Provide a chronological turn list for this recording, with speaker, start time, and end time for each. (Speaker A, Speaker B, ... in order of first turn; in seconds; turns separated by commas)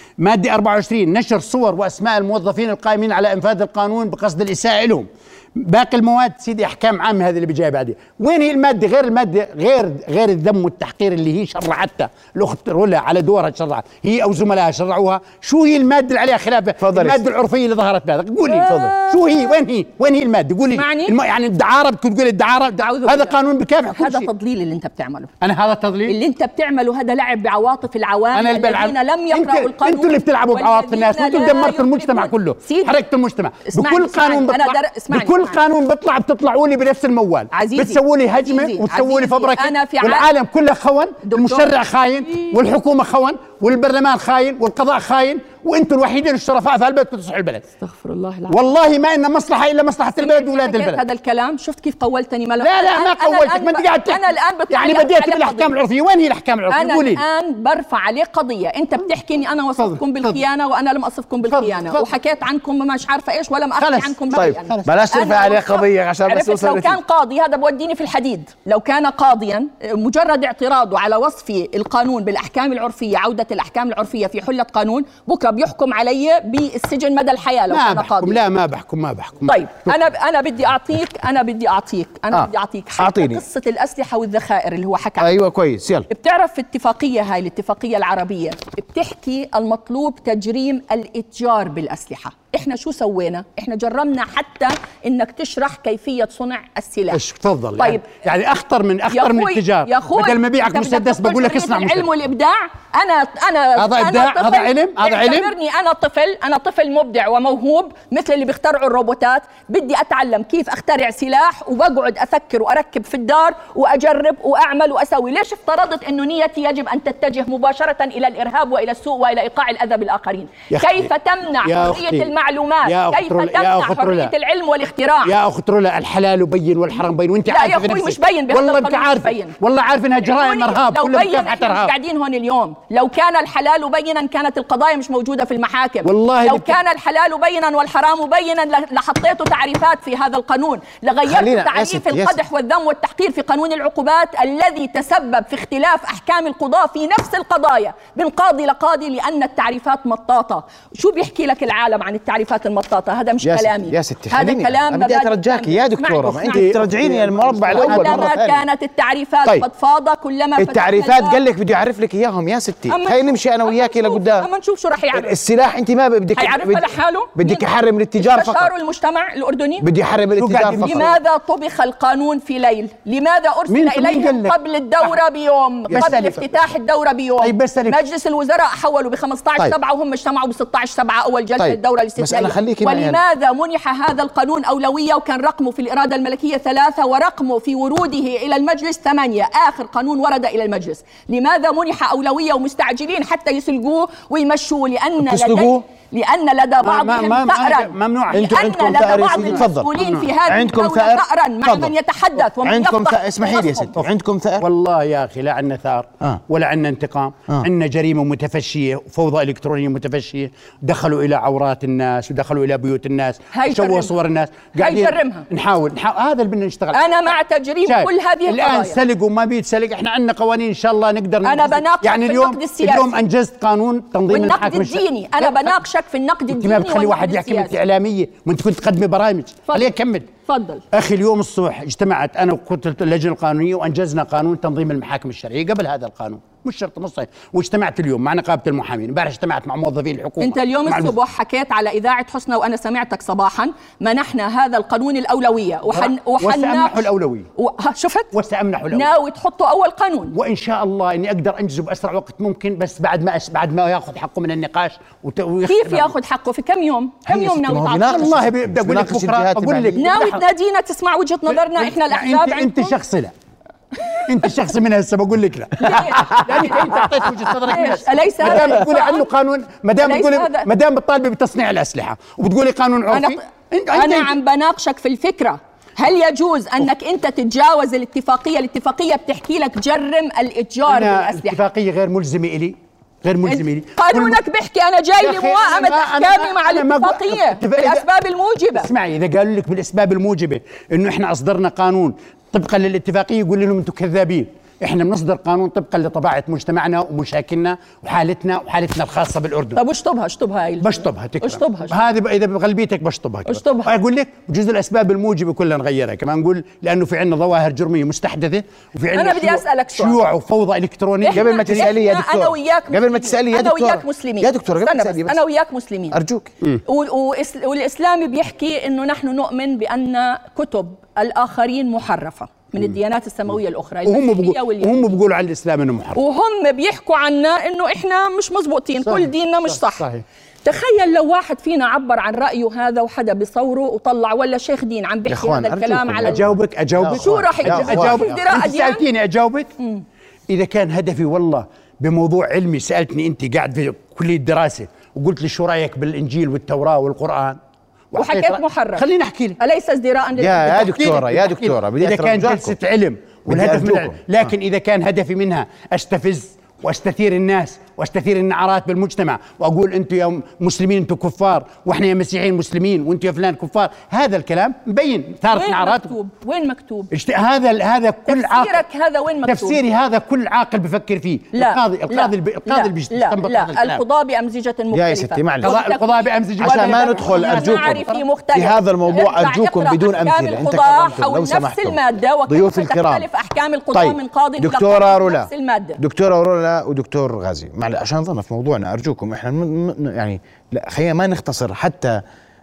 Speaker A: 0.2-24.3, Speaker B: 16.8-17.2, Speaker C: 18.4-19.6, Speaker B: 18.6-18.9, Speaker C: 20.7-21.1, Speaker C: 22.8-23.3, Speaker C: 23.9-25.3, Speaker A: 25.4-26.1, Speaker C: 26.1-33.0, Speaker A: 28.3-47.7, Speaker C: 33.7-35.6, Speaker C: 37.5-40.3, Speaker C: 41.2-41.7, Speaker C: 47.8-48.6, Speaker A: 48.5-51.0, Speaker C: 50.2-55.7, Speaker A: 52.6-57.2, Speaker C: 56.7-78.4, Speaker A: 59.8-60.4, Speaker A: 61.5-62.1, Speaker A: 63.8-64.9, Speaker B: 64.3-67.0, Speaker A: 77.7-79.9, Speaker C: 79.5-85.3, Speaker B: 82.3-83.4, Speaker B: 85.2-86.1, Speaker C: 86.1-97.2, Speaker A: 97.1-102.1, Speaker C: 97.8-98.1, Speaker C: 99.1-125.3, Speaker A: 103.8-105.5, Speaker A: 120.7-121.1, Speaker A: 121.6-122.3, Speaker A: 122.8-124.3, Speaker A: 125.2-131.9, Speaker C: 127.5-129.5, Speaker C: 130.2-156.8, Speaker A: 136.0-136.8, Speaker B: 141.2-142.3, Speaker B: 153.4-158.6, Speaker A: 156.2-158.3, Speaker C: 157.7-161.4, Speaker B: 160.6-164.5, Speaker C: 162.9-165.3, Speaker B: 165.1-168.7, Speaker C: 166.3-169.8, Speaker B: 169.8-171.1, Speaker A: 170.4-171.1, Speaker C: 170.6-203.9, Speaker A: 173.7-174.6, Speaker A: 175.9-176.5, Speaker B: 175.9-176.2, Speaker A: 177.4-178.0, Speaker B: 181.6-183.2, Speaker B: 195.2-195.8, Speaker A: 196.8-200.3, Speaker B: 198.3-199.9, Speaker B: 200.4-201.9, Speaker B: 202.6-204.6, Speaker A: 204.6-217.0, Speaker C: 213.5-214.1, Speaker C: 214.8-215.4, Speaker C: 216.9-219.0, Speaker A: 217.8-225.8, Speaker C: 221.4-223.1, Speaker C: 224.3-227.7, Speaker A: 226.5-230.3, Speaker C: 230.4-230.8, Speaker A: 230.9-241.1, Speaker C: 240.4-248.3, Speaker A: 245.9-247.5, Speaker A: 248.3-249.1, Speaker C: 248.9-250.3, Speaker A: 250.3-256.1, Speaker C: 255.7-258.3, Speaker B: 257.3-260.0, Speaker A: 258.0-260.4, Speaker C: 259.9-263.0, Speaker A: 261.5-263.3, Speaker A: 264.2-274.4, Speaker C: 265.8-267.0, Speaker C: 267.6-269.3, Speaker C: 270.0-270.7, Speaker C: 273.1-273.4, Speaker C: 273.9-281.6, Speaker A: 280.9-284.4, Speaker C: 283.5-288.9, Speaker A: 285.2-288.1, Speaker A: 288.7-299.8, Speaker C: 299.8-302.0, Speaker A: 300.8-311.9, Speaker C: 303.5-303.9, Speaker C: 309.1-310.2, Speaker C: 311.2-316.2, Speaker B: 311.3-315.4, Speaker B: 316.1-316.5, Speaker C: 316.9-325.2, Speaker A: 324.1-326.2, Speaker C: 326.1-330.1, Speaker A: 329.1-329.3, Speaker A: 329.9-330.2, Speaker C: 330.6-336.4, Speaker B: 335.3-338.4, Speaker A: 336.2-339.7, Speaker C: 337.1-339.1, Speaker A: 340.5-347.6, Speaker A: 348.1-349.6, Speaker C: 348.1-349.1, Speaker C: 349.6-351.2, Speaker B: 350.4-352.8, Speaker A: 350.8-366.1, Speaker B: 353.5-354.2, Speaker C: 365.5-367.1, Speaker A: 367.1-368.8, Speaker C: 368.3-369.8, Speaker A: 369.4-374.0, Speaker C: 371.5-386.0, Speaker B: 374.9-375.8, Speaker A: 375.6-378.2, Speaker B: 376.6-383.2, Speaker B: 383.9-392.2